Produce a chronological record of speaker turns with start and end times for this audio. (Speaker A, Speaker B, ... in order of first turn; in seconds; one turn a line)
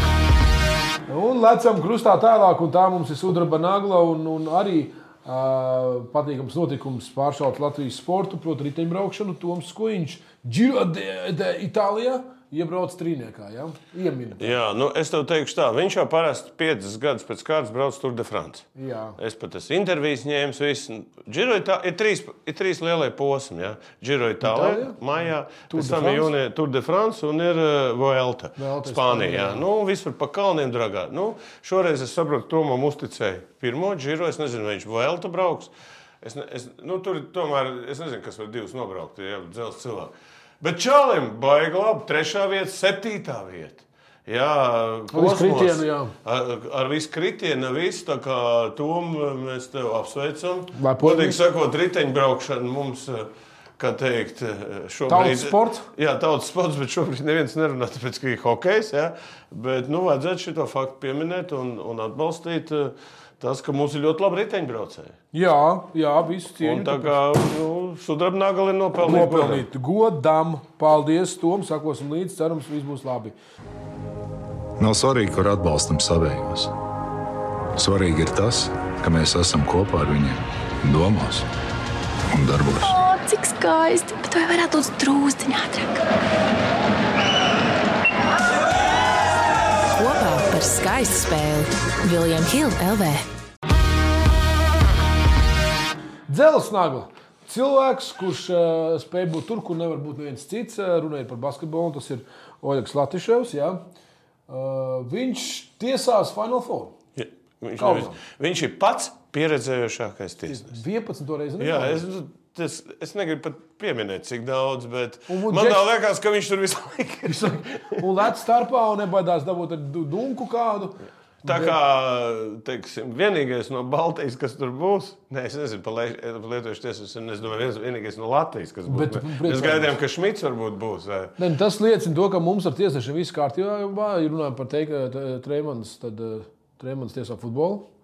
Speaker A: 1.1-14.6
Speaker B: 14.4-35.7
Speaker A: 18.8-19.2
Speaker A: 24.4-25.0
Speaker A: 25.7-26.3
Speaker A: 28.6-29.6
Speaker B: 36.2-65.2
Speaker A: 45.1-46.1
Speaker A: 50.7-51.4
Speaker A: 55.1-55.9
Speaker A: 65.3-67.2
Speaker B: 66.6-69.7
Speaker A: 69.0-73.3
Speaker C: 74.8-76.7
Speaker C: 77.8-81.5
Speaker C: 82.3-83.0
Speaker D: 82.8-86.0
Speaker E: 89.9-93.2
Speaker A: 96.3-103.8
Speaker A: 104.5-106.9
Speaker B: 107.2-110.8
Speaker A: 107.8-108.2
Speaker A: 110.5-112.0
Speaker B: 111.6-118.3
Speaker A: 115.3-115.9
Speaker A: 117.3-121.8
Speaker B: 121.4-131.3
Speaker A: 128.9-129.9
Speaker A: 131.4-137.9